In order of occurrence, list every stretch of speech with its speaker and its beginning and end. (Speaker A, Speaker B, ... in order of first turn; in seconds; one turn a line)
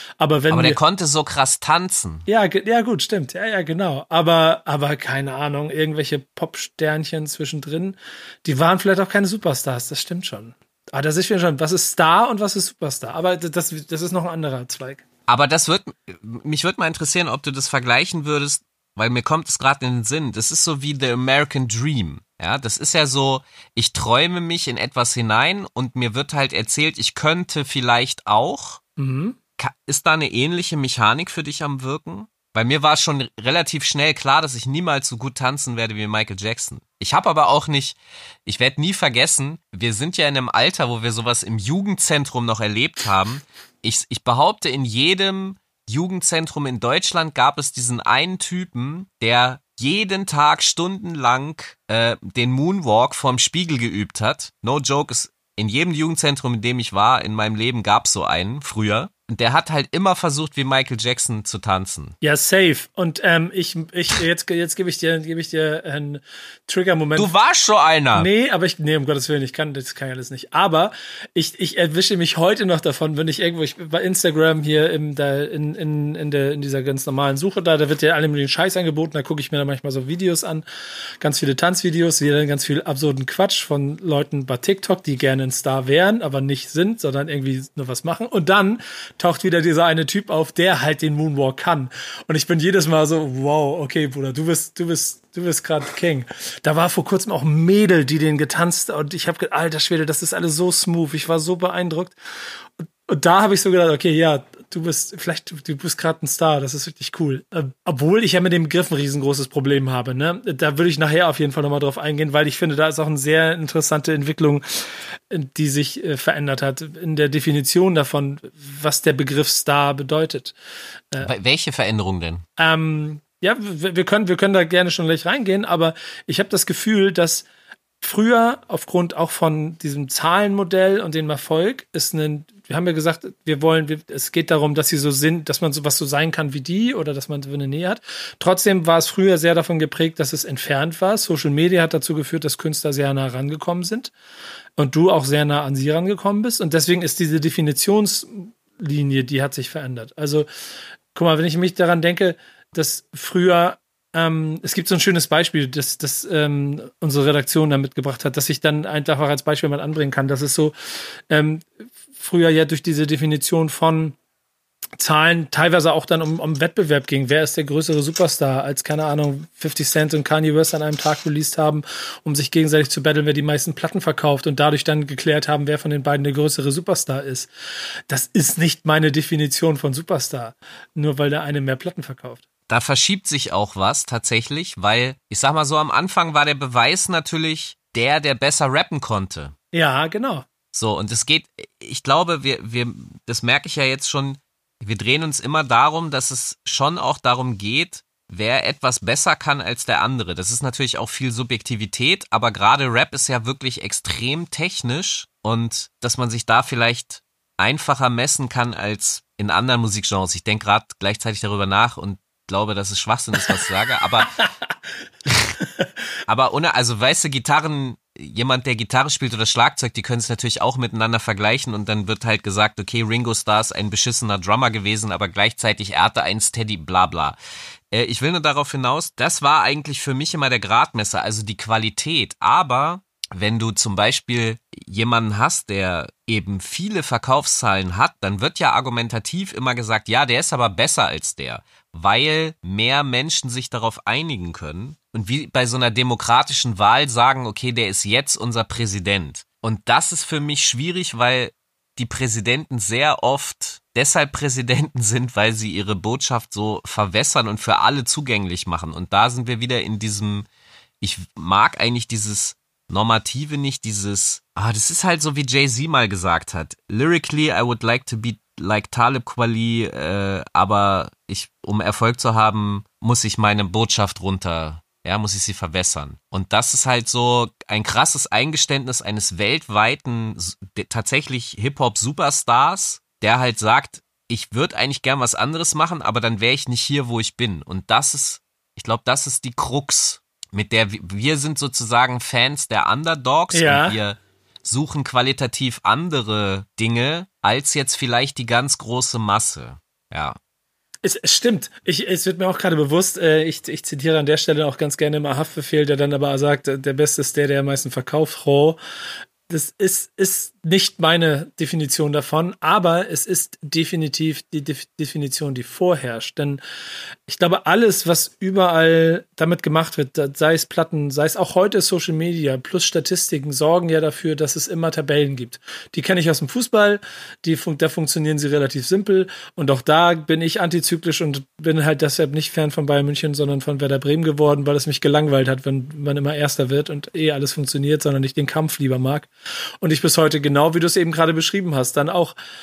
Speaker A: 0.2-0.8
Speaker B: 0.5-2.2
Speaker A: 2.3-15.0
Speaker B: 15.3-28.8
Speaker A: 29.0-29.4
Speaker B: 29.6-62.2
Speaker A: 62.2-67.3
Speaker B: 67.2-68.3
Speaker A: 68.1-80.6
Speaker A: 81.2-102.1
Speaker A: 103.1-114.6
Speaker A: 115.3-120.5
Speaker B: 121.2-122.5
Speaker A: 122.6-127.5
Speaker A: 128.0-144.1
Speaker A: 144.8-150.5
Speaker A: 151.1-160.7
Speaker A: 161.3-164.2
Speaker A: 165.0-177.5
Speaker A: 178.1-182.4
Speaker B: 182.7-189.6
Speaker A: 189.7-190.5
Speaker B: 190.7-214.3
Speaker B: 215.3-215.5
Speaker B: 216.3-227.4
Speaker B: 227.9-260.5
Speaker B: 261.0-300.4
Speaker A: 293.5-294.0
Speaker A: 301.0-308.8
Speaker A: 309.5-316.6
Speaker A: 317.3-339.3
Speaker A: 339.8-342.4